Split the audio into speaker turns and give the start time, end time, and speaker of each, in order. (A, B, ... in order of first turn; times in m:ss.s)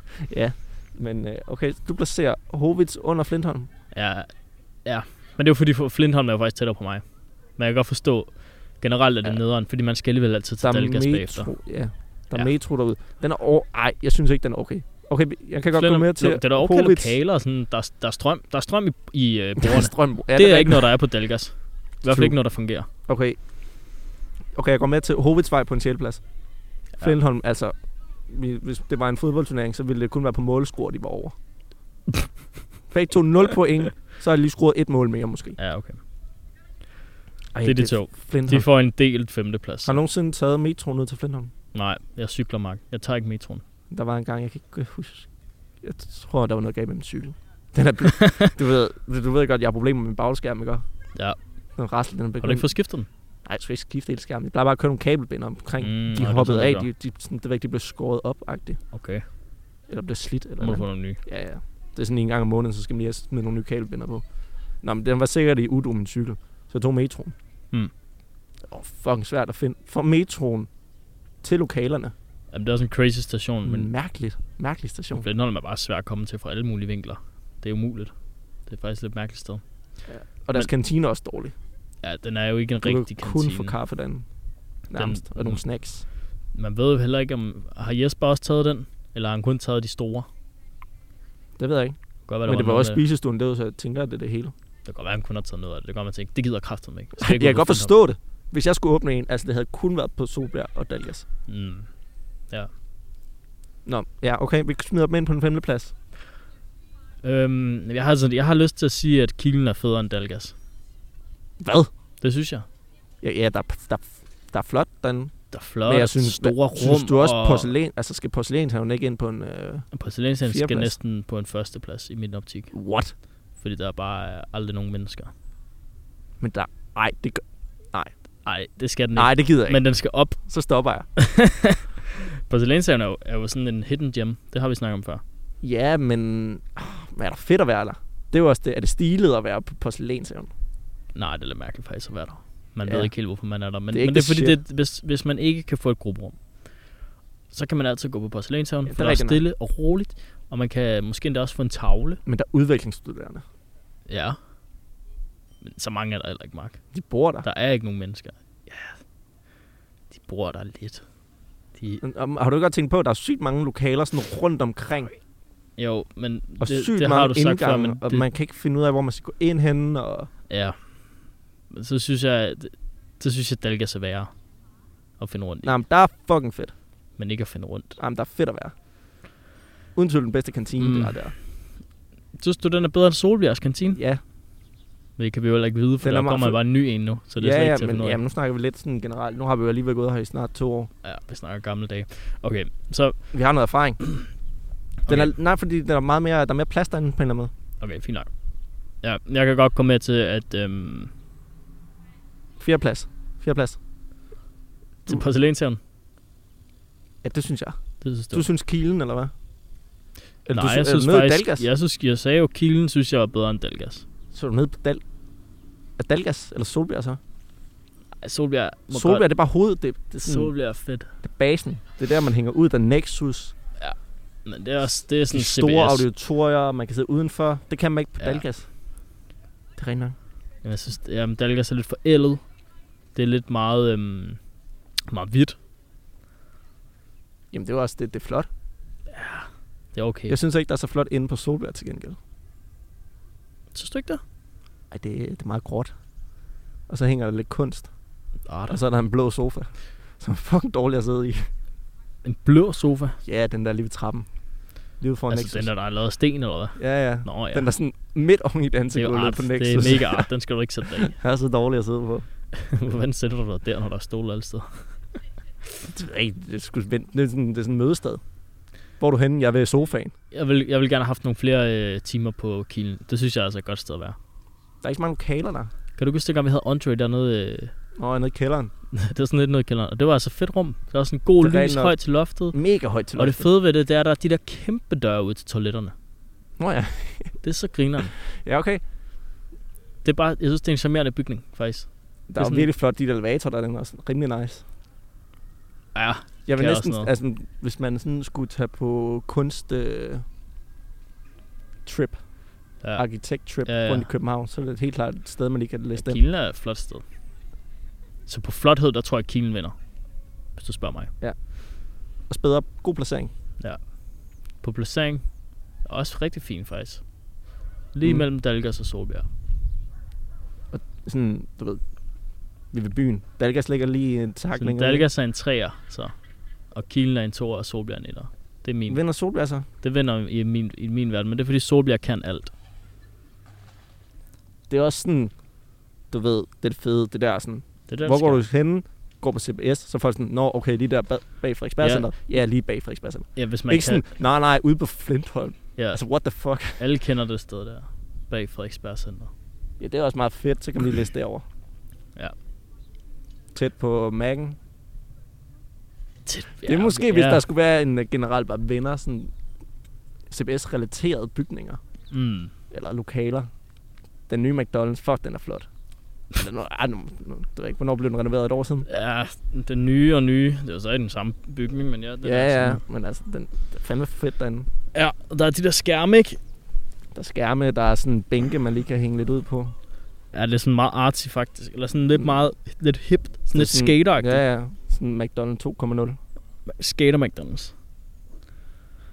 0:00.2-0:03.7 A
0:03.9-0:04.3 B
0:04.8-0:07.0 B
0:07.6-0:11.5 B
0:10.6-0:17.2 A
0:15.7-0:22.9 B
0:19.6-0:20.9 A
0:22.1-0:22.3 A
0:23.1-0:23.4 A
0:24.5-0:26.2 A
0:27.0-0:27.7 A
0:28.3-0:31.3 A
0:32.9-0:35.6 A
0:35.6-0:36.0 B
0:37.5-0:38.6 A
0:37.6-0:40.0 B
0:39.8-0:41.5 A
0:41.7-0:43.6 B
0:43.9-0:45.3 A
0:45.8-0:50.8 A
0:48.2-0:48.5 B
0:51.8-0:52.7 A
0:52.4-0:53.1 B
0:53.4-0:58.8 A
0:55.8-0:56.9 B
0:58.9-0:59.2 B
0:59.9-1:04.2 A
1:00.6-1:01.2 B
1:04.8-1:07.3 A
1:08.7-1:10.7 A
1:11.4-1:12.1 A
1:12.5-1:13.9 B
1:13.6-1:15.2 A
1:15.2-1:18.1 B
1:18.6-1:19.6 B
1:20.1-1:21.5 A
1:22.0-1:23.7 B
1:22.8-1:24.2 A
1:24.9-1:26.0 A
1:24.9-1:25.6 B
1:26.5-1:30.3 B
1:31.6-1:34.5 A
1:32.3-1:33.0 B
1:34.8-1:37.9 B
1:37.2-1:41.2 A
1:41.5-1:41.9 B
1:43.8-1:45.9 A
1:47.2-1:50.5 B
1:51.6-1:51.9 A
1:52.2-1:52.7 B
1:53.2-1:59.9 A
1:55.5-1:57.7 B
1:59.9-2:02.7 B
2:00.4-2:01.0 A
2:02.7-2:03.1 A
2:03.6-2:05.3 B
2:06.4-2:08.1 A
2:08.4-2:10.4 B
2:09.1-2:09.8 A
2:10.4-2:11.1 A
2:11.2-2:11.9 B
2:12.4-2:15.2 B
2:15.6-2:20.5 A
2:21.1-2:26.4 B
2:22.8-2:23.1 A
2:23.9-2:24.6 A
2:27.5-2:32.2 B
2:28.8-2:29.4 A
2:32.2-2:33.4 A
2:34.1-2:34.4 B
2:35.6-2:36.8 B
2:36.9-2:37.4 A
2:37.4-2:39.0 B
2:40.1-2:41.0 B
2:41.8-2:42.0 B
2:42.0-2:45.1 A
2:45.8-2:48.2 B
2:46.6-2:50.3 A
2:50.5-2:51.1 B
2:51.7-2:54.3 B
2:55.2-2:55.7 B
2:55.6-2:56.7 A
2:57.2-2:58.0 B
2:58.0-2:58.7 A
2:59.9-3:01.4 A
3:00.8-3:01.4 B
3:02.4-3:04.0 B
3:03.9-3:04.2 A
3:05.2-3:08.2 B
3:06.0-3:06.6 A
3:07.4-3:10.9 A
3:11.0-3:13.3 B
3:13.3-3:14.0 A
3:15.1-3:17.5 A
3:17.8-3:18.3 B
3:19.0-3:21.1 B
3:22.6-3:23.8 A
3:25.0-3:25.8 B
3:27.2-3:29.3 A
3:28.0-3:28.5 B
3:30.4-3:31.7 A
3:30.5-3:34.0 B
3:34.3-3:35.0 A
3:36.0-3:37.2 A
3:38.2-3:39.2 B
3:38.9-3:40.5 A
3:40.2-3:41.1 B
3:41.2-3:43.5 A
3:43.8-3:46.0 B
3:45.3-3:48.7 A
3:49.8-3:50.2 A
3:50.6-3:52.4 B
3:53.1-3:54.4 B
3:55.1-3:55.6 B
3:57.5-3:58.5 A
3:59.1-4:00.4 B
4:00.3-4:02.2 A
4:03.7-4:04.2 B
4:04.9-4:05.9 A
4:06.9-4:07.9 A
4:08.5-4:08.8 B
4:08.7-4:11.5 A
4:12.2-4:13.2 B
4:13.2-4:14.3 A
4:15.0-4:15.7 A
4:15.3-4:17.7 B
4:16.8-4:20.3 A
4:18.9-4:21.1 B
4:21.0-4:22.2 A
4:22.5-4:25.0 B
4:25.9-4:28.2 A
4:29.0-4:30.1 A
4:30.3-4:34.2 B
4:34.8-4:35.7 A
4:36.0-4:37.7 B
4:38.0-4:38.7 A
4:38.9-4:42.6 B
4:41.4-4:42.0 A
4:42.5-4:43.4 A
4:43.1-4:45.9 B
4:46.6-4:47.4 A
4:47.4-4:48.1 B
4:48.3-4:48.8 A
4:50.0-4:52.7 B
4:52.3-4:54.6 A
4:55.9-4:57.1 B
4:56.4-5:00.2 A
5:01.8-5:02.2 A
5:02.9-5:06.2 A
5:03.6-5:04.1 B
5:06.0-5:07.0 B
5:08.2-5:09.8 B
5:10.6-5:11.1 B
5:11.2-5:13.3 A
5:13.6-5:15.3 B
5:15.8-5:17.0 B
5:17.9-5:19.3 B
5:20.7-5:21.8 A
5:22.7-5:25.0 A
5:24.6-5:26.1 B
5:26.7-5:29.0 B
5:28.9-5:29.6 A
5:29.8-5:32.5 B
5:34.7-5:35.3 A
5:36.1-5:46.8 A
5:37.9-5:38.4 B
5:41.8-5:42.1 B
5:43.4-5:44.1 B
5:45.8-5:46.0 B
5:46.8-5:49.3 B
5:49.8-5:51.4 A
5:53.5-5:54.6 A
5:56.2-5:57.4 B
5:56.6-5:59.3 A
6:00.3-6:01.8 A
6:02.1-6:02.5 B
6:02.7-6:03.5 A
6:04.3-6:05.7 A
6:06.3-6:08.9 A
6:08.9-6:12.8 B
6:12.2-6:14.7 A
6:14.9-6:16.4 B
6:17.1-6:19.7 A
6:20.3-6:24.4 B
6:23.5-6:26.2 A
6:26.6-6:27.7 B